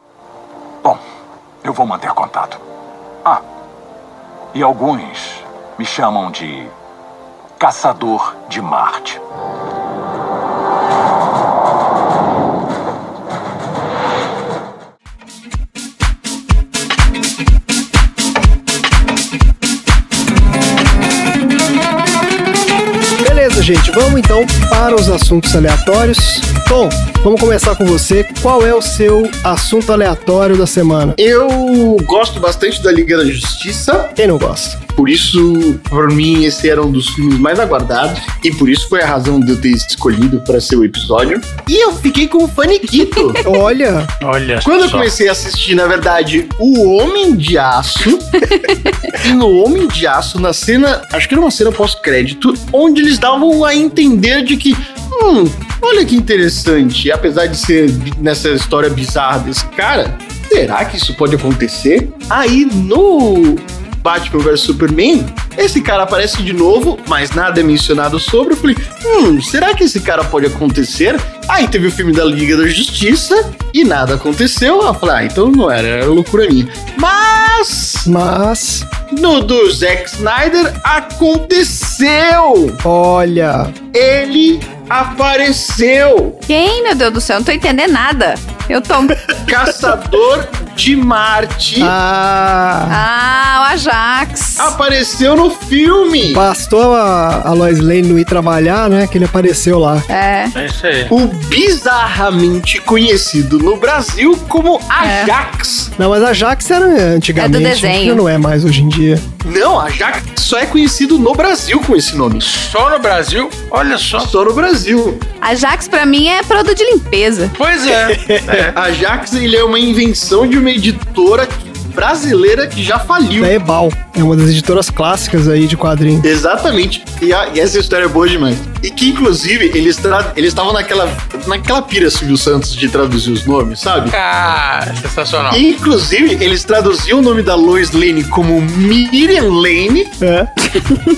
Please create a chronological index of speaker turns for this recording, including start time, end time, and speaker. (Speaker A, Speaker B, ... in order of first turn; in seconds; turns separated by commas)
Speaker A: 1.6-2.6, Speaker A: 4.5-6.7, Speaker A: 7.6-9.2, Speaker B: 23.2-31.2, Speaker C: 31.2-34.1, Speaker B: 34.2-34.8, Speaker C: 35.0-43.4, Speaker B: 43.4-44.1, Speaker D: 44.2-45.1, Speaker C: 44.6-78.1, Speaker E: 48.5-48.9, Speaker B: 78.0-78.9, Speaker C: 79.1-82.8, Speaker B: 82.8-83.8, Speaker C: 83.9-86.4, Speaker E: 86.5-89.2, Speaker C: 89.4-91.9, Speaker B: 91.8-93.0, Speaker E: 92.9-94.8, Speaker C: 94.6-96.5, Speaker B: 96.2-100.1, Speaker E: 100.1-100.5, Speaker D: 100.5-101.1, Speaker C: 101.1-105.9, Speaker E: 105.0-105.3, Speaker B: 106.0-109.2, Speaker E: 107.4-108.2, Speaker C: 109.4-112.5, Speaker D: 112.4-114.3, Speaker C: 114.2-115.2, Speaker E: 115.4-117.5, Speaker D: 117.6-118.7, Speaker B: 117.9-118.7, Speaker C: 118.6-123.5, Speaker B: 123.4-126.2, Speaker C: 126.2-134.1, Speaker D: 134.1-135.6, Speaker C: 135.5-140.1, Speaker B: 140.2-140.7